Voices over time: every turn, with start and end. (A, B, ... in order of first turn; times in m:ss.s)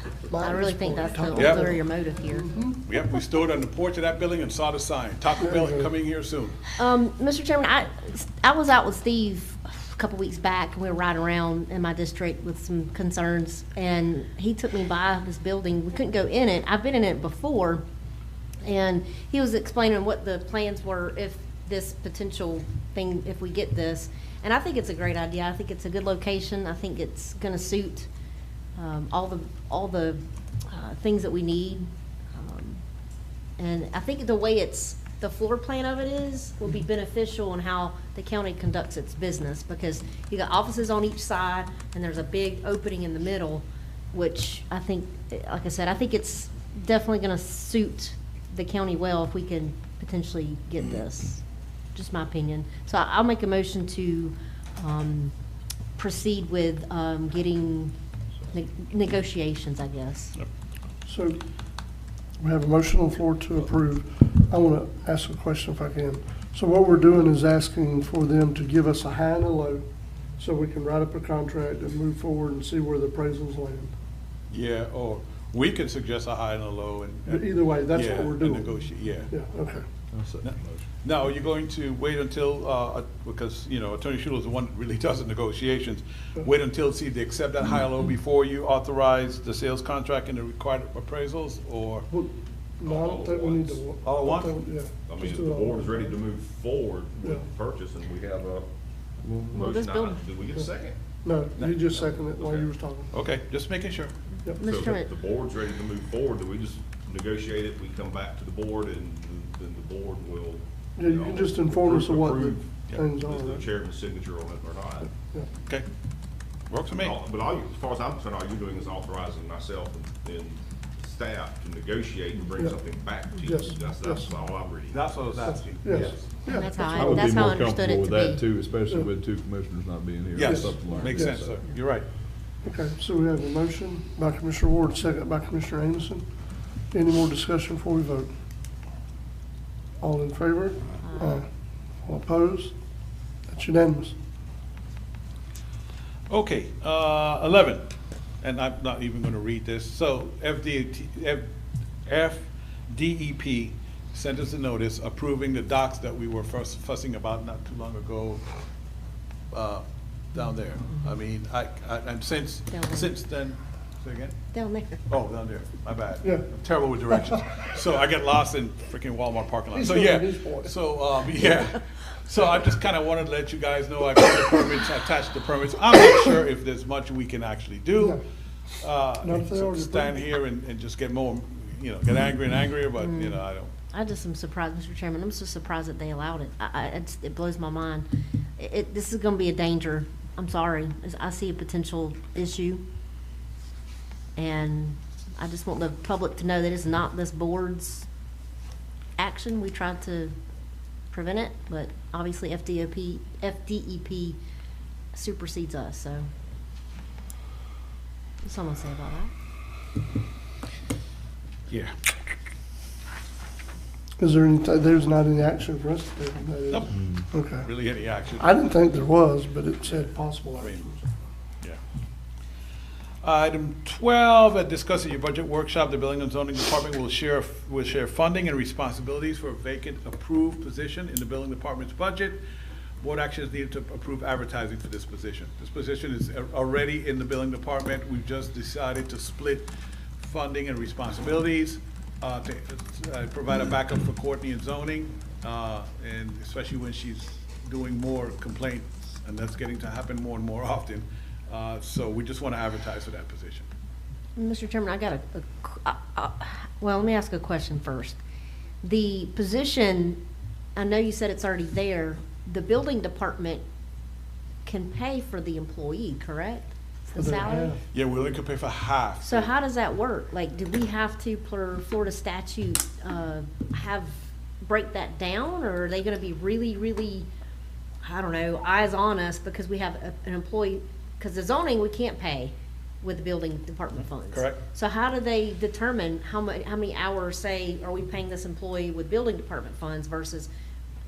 0:00.3-0:02.8 A
0:00.4-0:02.5 B
0:01.3-0:01.7 C
0:02.8-0:06.6 C
0:05.4-0:05.9 A
0:06.8-0:17.8 B
0:18.6-0:28.1 B
0:28.8-0:32.8 B
0:33.6-0:51.4 B
0:51.9-0:55.3 B
0:56.0-0:57.9 B
0:58.5-1:00.4 B
1:01.0-1:01.4 A
1:02.4-1:09.8 A
1:10.4-1:13.9 A
1:14.5-1:19.3 C
1:17.3-1:18.7 A
1:19.3-1:19.8 A
1:20.1-1:20.8 D
1:20.4-1:32.1 C
1:32.1-1:36.1 A
1:32.8-1:33.8 E
1:34.0-1:34.6 C
1:35.0-1:38.7 E
1:39.2-1:39.6 D
1:39.5-1:41.0 E
1:39.5-1:40.2 B
1:41.2-1:43.1 A
1:41.6-1:41.8 C
1:42.4-1:42.6 E
1:43.1-1:44.1 C
1:44.6-1:45.1 B
1:44.6-1:55.1 E
1:51.0-1:53.6 A
1:55.1-1:55.5 A
1:56.7-1:57.2 C
1:56.9-2:05.0 E
2:03.3-2:04.4 A
2:04.9-2:06.2 C
2:05.4-2:07.3 A
2:06.5-2:08.4 B
2:06.9-2:11.6 D
2:10.3-2:12.1 C
2:10.4-2:11.4 A
2:12.6-2:16.2 A
2:16.9-2:18.3 A
2:20.0-2:21.5 A
2:21.0-2:21.4 B
2:22.0-2:22.7 A
2:23.5-2:24.2 A
2:26.3-2:27.8 C
2:28.4-2:31.5 C
2:32.0-2:38.4 C
2:39.5-2:44.4 C
2:42.7-2:43.1 B
2:44.5-2:45.0 B
2:45.1-2:58.2 C
2:49.7-2:50.7 A
2:58.0-2:58.2 A
2:58.8-3:03.7 C
2:59.2-3:00.2 A
3:03.0-3:12.8 B
3:14.4-3:18.1 B
3:19.2-3:20.3 B
3:21.1-3:24.4 B
3:25.1-3:26.3 B
3:28.4-3:29.3 B
3:31.7-3:32.0 C
3:34.2-3:37.7 A
3:36.7-3:37.0 C
3:36.9-3:37.3 D
3:37.6-3:38.5 C
3:38.4-3:41.0 A
3:39.8-3:40.9 C
3:43.2-3:52.4 C
3:53.0-4:13.7 C
4:14.4-4:18.2 B
4:18.8-4:20.2 B
4:20.7-4:23.6 B
4:24.6-4:27.7 B
4:27.1-4:27.8 A
4:27.9-4:29.5 C
4:29.2-4:37.3 B
4:38.0-4:50.5 B
4:44.3-4:44.6 C